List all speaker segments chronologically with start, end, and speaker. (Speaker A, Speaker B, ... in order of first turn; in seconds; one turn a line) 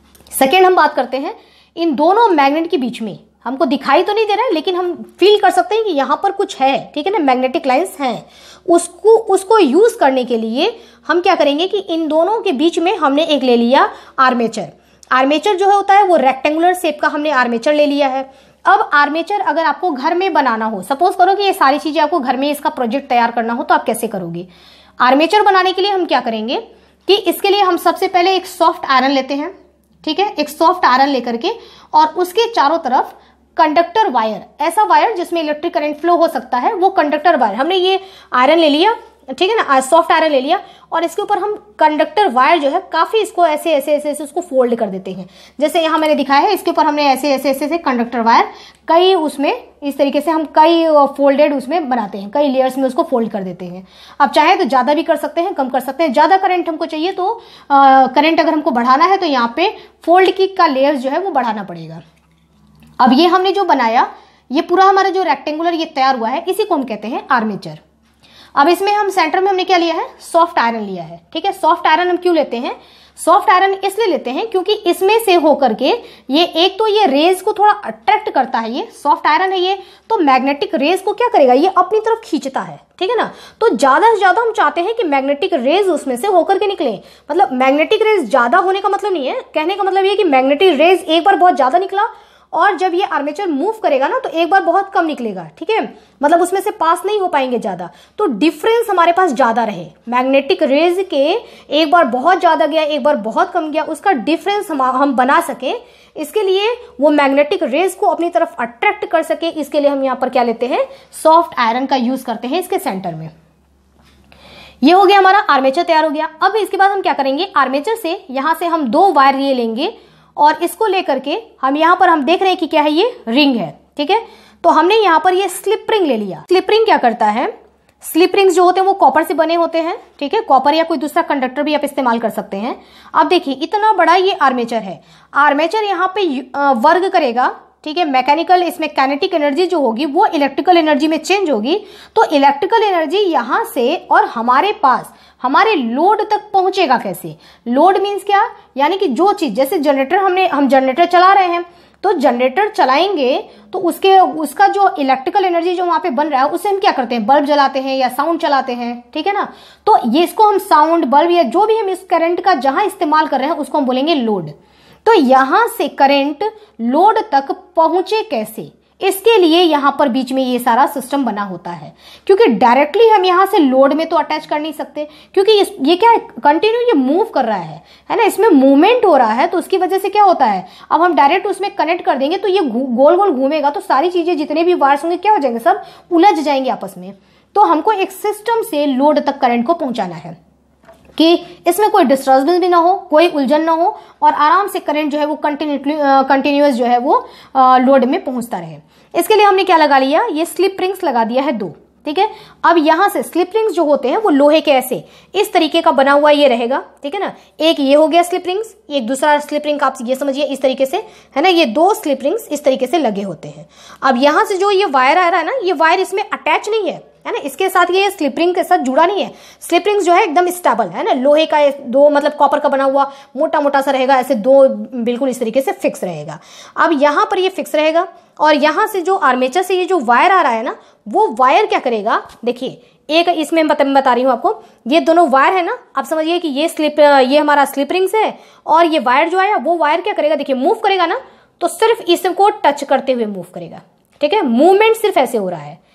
Speaker A: 0.3-24.5
Speaker A: 25.0-62.0
Speaker A: 63.0-67.8
Speaker A: 68.5-113.3
Speaker A: 114.8-164.5
Speaker A: 165.1-190.4
Speaker A: 191.2-245.8